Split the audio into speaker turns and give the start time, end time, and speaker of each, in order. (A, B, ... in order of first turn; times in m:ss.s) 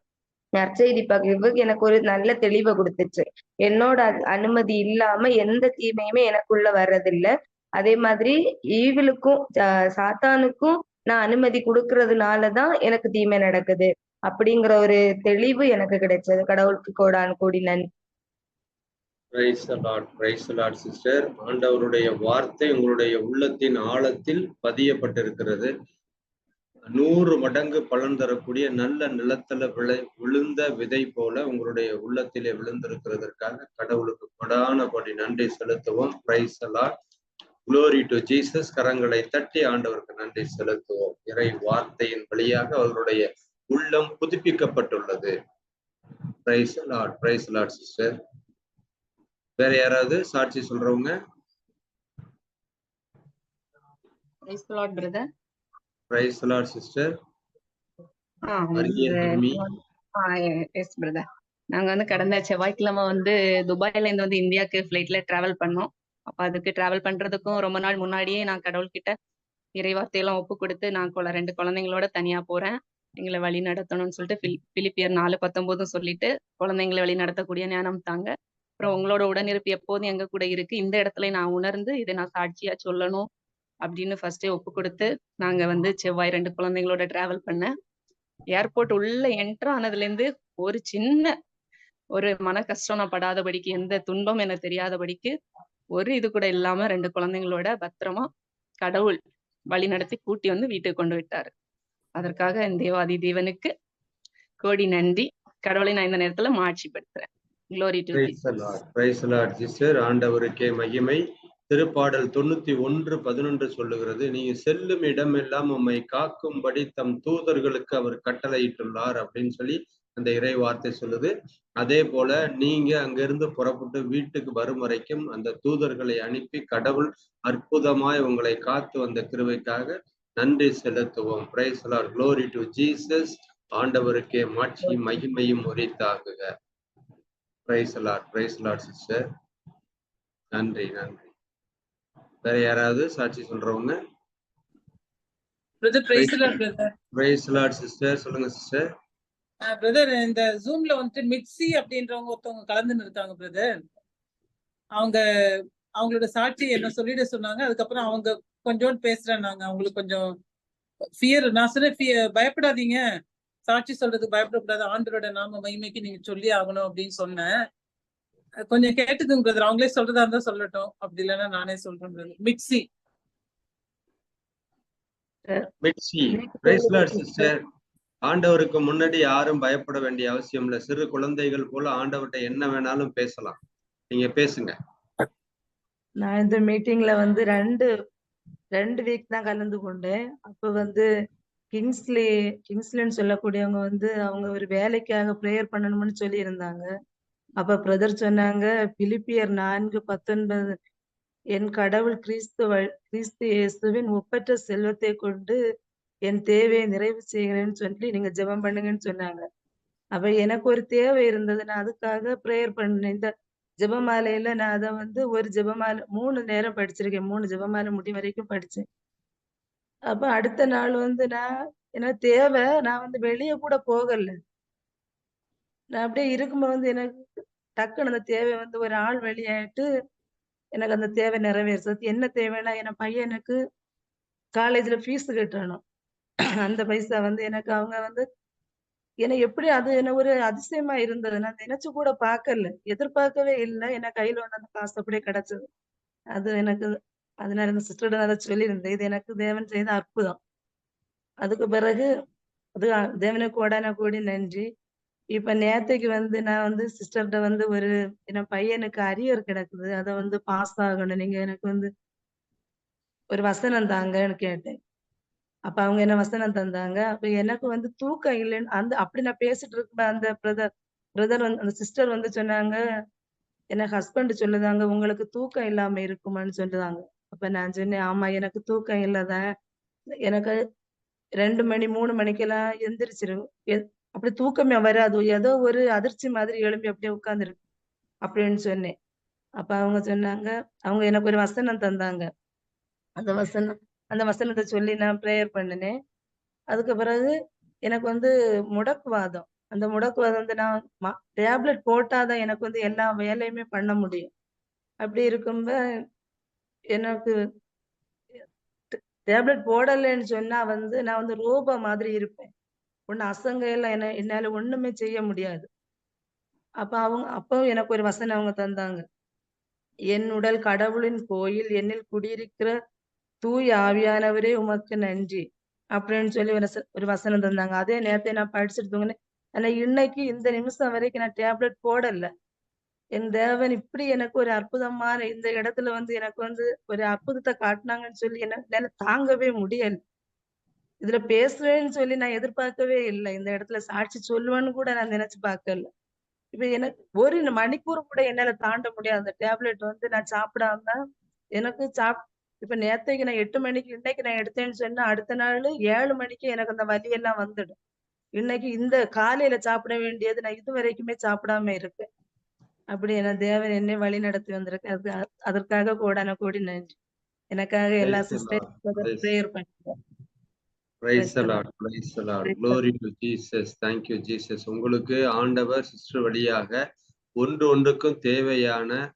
0:00.6-0:09.4 A
0:10.0-0:17.9 A
0:19.3-0:25.7 B
0:26.9-0:36.9 B
0:37.7-0:45.3 B
0:46.5-0:48.1 B
0:49.6-0:51.1 B
0:54.5-0:55.2 C
0:56.1-0:57.1 B
0:58.5-1:09.2 C
0:58.7-0:59.6 B
1:09.8-1:23.3 C
1:23.8-1:27.7 C
1:28.5-1:31.3 C
1:32.2-1:35.4 C
1:36.0-1:38.3 C
1:38.8-1:39.2 C
1:39.7-1:41.5 C
1:42.2-1:43.7 C
1:44.6-1:48.4 C
1:48.1-2:16.4 B
2:17.7-2:19.2 B
2:20.5-2:21.3 B
2:22.4-2:24.0 B
2:25.8-2:26.9 D
2:26.1-2:26.5 B
2:27.2-2:28.8 B
2:29.7-2:33.7 D
2:36.0-2:40.3 D
2:41.2-2:43.0 D
2:43.7-2:47.5 D
2:48.7-2:52.8 D
2:55.8-2:57.6 B
2:56.3-2:57.5 E
2:58.3-3:03.6 B
3:04.1-3:04.7 B
3:06.2-3:07.9 E
3:08.8-3:11.1 E
3:11.7-3:16.9 E
3:17.6-3:20.8 E
3:21.6-3:25.6 E
3:26.3-3:29.4 E
3:30.2-3:33.3 E
3:33.8-3:38.8 E
3:40.1-3:41.4 E
3:42.0-3:44.4 E
3:46.0-3:49.9 E
3:50.8-3:53.6 E
3:54.6-3:55.8 E
3:56.6-3:58.2 E
3:59.2-4:05.6 E
4:06.4-4:06.9 E
4:07.4-4:10.4 E
4:11.4-4:12.1 E
4:12.8-4:14.6 E
4:15.4-4:21.9 E
4:23.3-4:24.8 E
4:25.7-4:30.7 E
4:31.2-4:32.8 E
4:33.7-4:39.4 E
4:40.2-4:40.6 E
4:41.4-4:47.6 E
4:48.3-4:48.9 E
4:49.6-4:52.3 E
4:53.2-4:55.9 E
4:56.7-4:57.3 E
4:57.9-5:04.3 E
5:05.0-5:05.8 E
5:07.0-5:07.3 E
5:08.9-5:12.5 E
5:13.1-5:15.7 E
5:16.8-5:19.0 E
5:20.1-5:22.7 E
5:23.4-5:25.4 E
5:26.0-5:32.3 E
5:33.2-5:40.0 E
5:41.0-5:45.9 E
5:46.5-5:51.0 E
5:51.6-5:57.8 E
5:58.4-6:02.1 E
6:02.9-6:07.0 E
6:07.5-6:09.9 E
6:08.0-6:09.3 B
6:11.0-6:16.8 B
6:11.2-6:11.6 E
6:12.5-6:12.8 E
6:17.4-6:19.0 B